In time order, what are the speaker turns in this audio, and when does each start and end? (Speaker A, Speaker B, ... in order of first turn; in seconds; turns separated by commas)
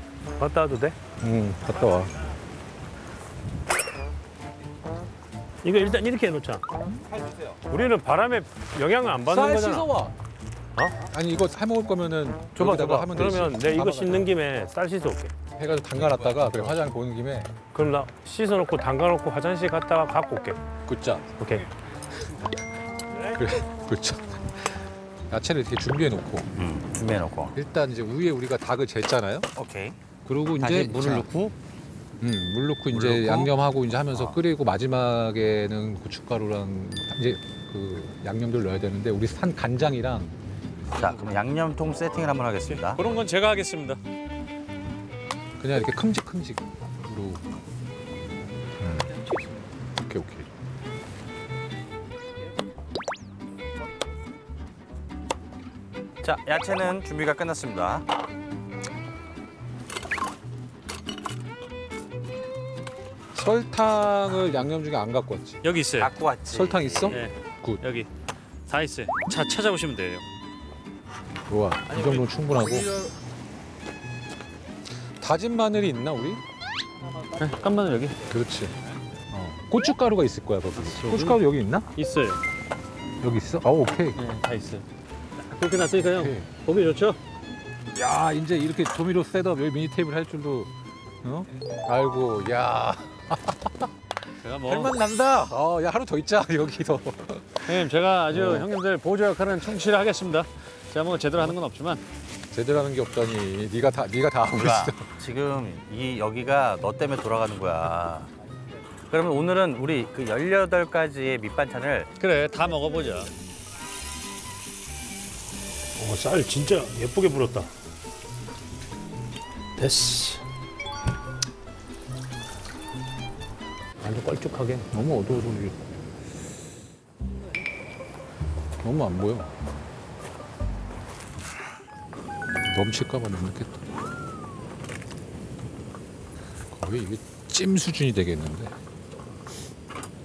Speaker A: 0.4-1.0, Speaker B: 1.2-2.2, Speaker A: 5.6-6.6, Speaker C: 7.1-7.6, Speaker A: 7.7-9.9, Speaker B: 9.2-10.2, Speaker B: 11.0-14.3, Speaker A: 12.6-15.3, Speaker B: 15.6-17.5, Speaker C: 15.9-16.7, Speaker A: 17.7-20.6, Speaker B: 20.9-21.4, Speaker A: 21.4-21.7, Speaker B: 23.3-26.5, Speaker C: 26.6-27.6, Speaker B: 27.6-29.5, Speaker C: 29.6-30.0, Speaker B: 30.2-31.3, Speaker C: 30.6-31.6, Speaker B: 32.2-40.4, Speaker C: 32.9-33.5, Speaker C: 34.1-34.4, Speaker C: 41.0-43.1, Speaker D: 42.7-44.0, Speaker B: 45.6-47.4, Speaker B: 48.8-49.3, Speaker B: 50.0-50.5, Speaker C: 56.2-58.1, Speaker B: 63.3-65.6, Speaker D: 65.6-66.1, Speaker C: 66.0-67.2, Speaker B: 66.5-67.8, Speaker D: 67.1-68.1, Speaker D: 68.7-70.2, Speaker B: 71.5-72.9, Speaker D: 72.0-73.1, Speaker B: 75.2-76.4, Speaker D: 77.4-78.2, Speaker B: 78.3-78.8, Speaker B: 79.3-81.9, Speaker D: 80.8-81.4, Speaker D: 82.0-82.4, Speaker B: 83.2-84.2, Speaker D: 84.2-84.8, Speaker D: 85.4-87.2, Speaker B: 86.1-86.5, Speaker B: 87.9-90.7, Speaker B: 91.2-93.9, Speaker D: 94.4-95.0, Speaker B: 94.5-98.7, Speaker D: 97.7-102.0, Speaker B: 102.5-105.1, Speaker C: 104.5-108.3, Speaker C: 109.1-112.1, Speaker D: 112.2-113.3, Speaker A: 116.0-117.7, Speaker A: 119.8-120.4, Speaker A: 124.0-124.9, Speaker B: 124.9-125.8, Speaker B: 128.8-129.7, Speaker B: 132.7-133.8, Speaker B: 136.7-138.7